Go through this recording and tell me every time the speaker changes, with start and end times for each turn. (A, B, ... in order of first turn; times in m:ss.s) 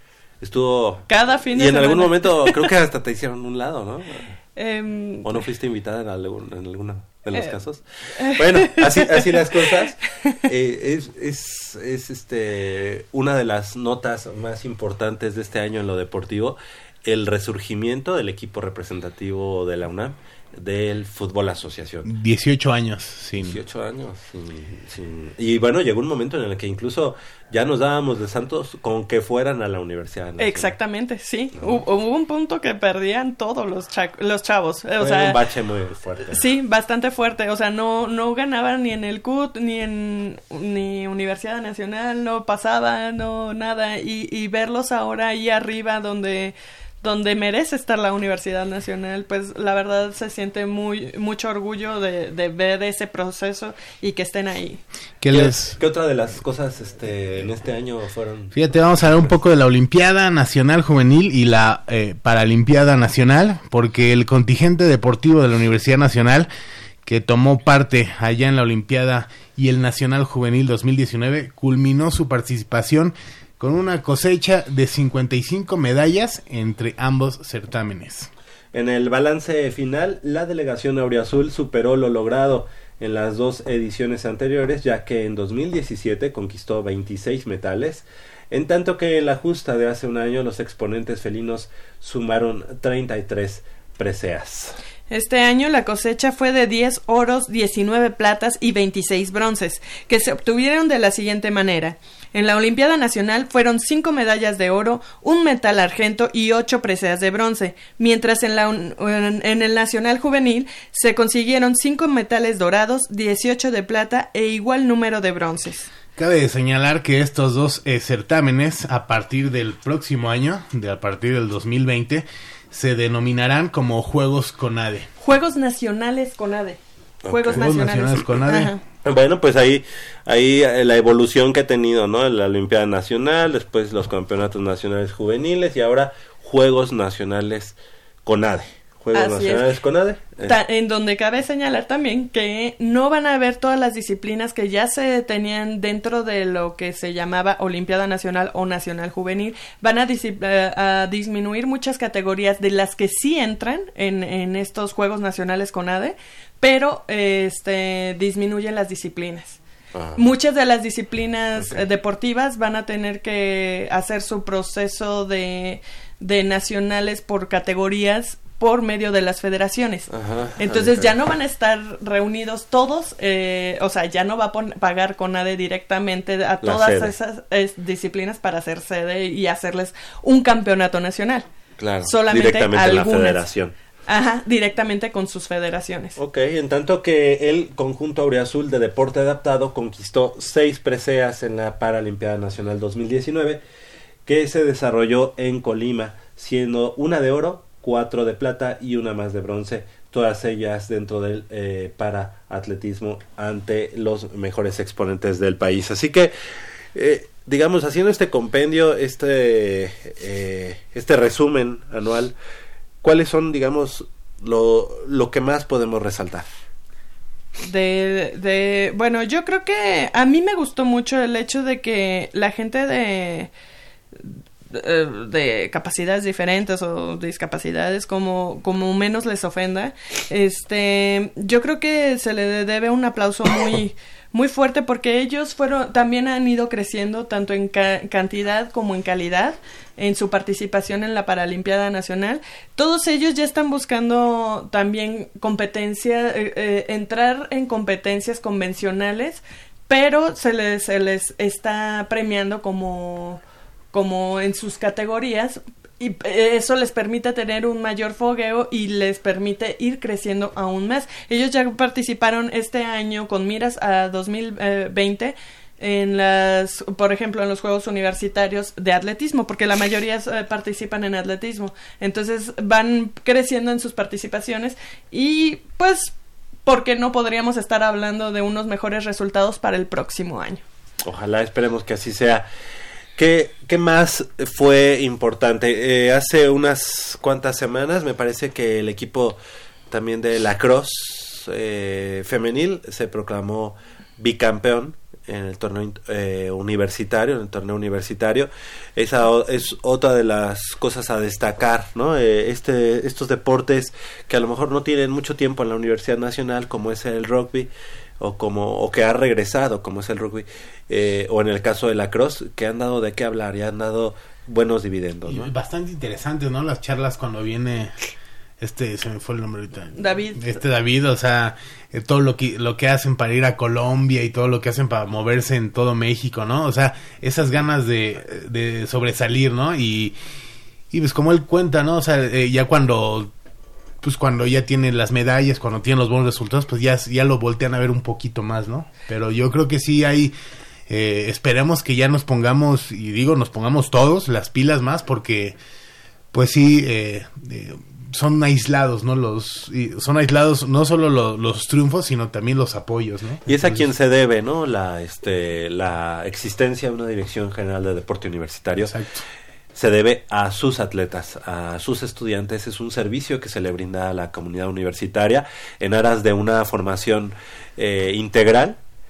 0:00.4-0:04.4 A
0:01.1-0:02.5 B
0:04.6-0:05.4 B
0:05.2-0:22.1 A
0:08.2-0:09.8 B
0:22.0-0:23.6 C
0:23.4-0:30.8 A
0:30.4-0:35.4 B
0:31.6-0:31.8 A
0:35.0-0:36.5 A
0:36.3-0:54.8 B
0:55.2-0:55.8 C
0:55.3-0:58.6 A
0:58.5-1:06.5 C
1:07.1-1:18.3 C
1:18.7-1:34.8 A
1:35.1-1:55.9 B
1:56.2-2:05.1 C
2:05.2-2:06.8 B
2:07.2-2:07.7 A
2:07.3-2:08.8 B
2:07.5-2:08.7 C
2:09.0-2:20.6 A
2:19.1-2:19.8 B
2:20.4-2:39.6 B
2:39.9-2:40.2 A
2:40.2-3:01.5 B
2:41.6-2:41.8 A
2:50.1-2:51.1 A
2:56.6-2:57.1 A
3:01.8-3:03.7 A
3:02.0-3:03.4 B
3:04.1-3:06.2 B
3:06.2-3:13.6 A
3:14.3-3:26.3 A
3:26.9-3:32.3 A
3:33.0-3:36.5 A
3:37.6-3:43.5 B
3:44.2-4:13.4 B
4:13.9-4:36.1 B
4:36.7-4:40.6 B
4:41.0-4:42.4 A
4:43.2-4:49.4 A
4:49.9-5:15.5 A
5:15.3-5:17.9 C
5:18.6-5:30.2 C
5:20.0-5:20.5 B
5:30.9-5:33.3 C
5:34.0-5:40.3 C
5:40.9-5:45.6 C
5:46.3-5:53.9 C
5:53.5-5:59.0 A
5:58.8-5:59.2 C
5:59.8-6:08.8 A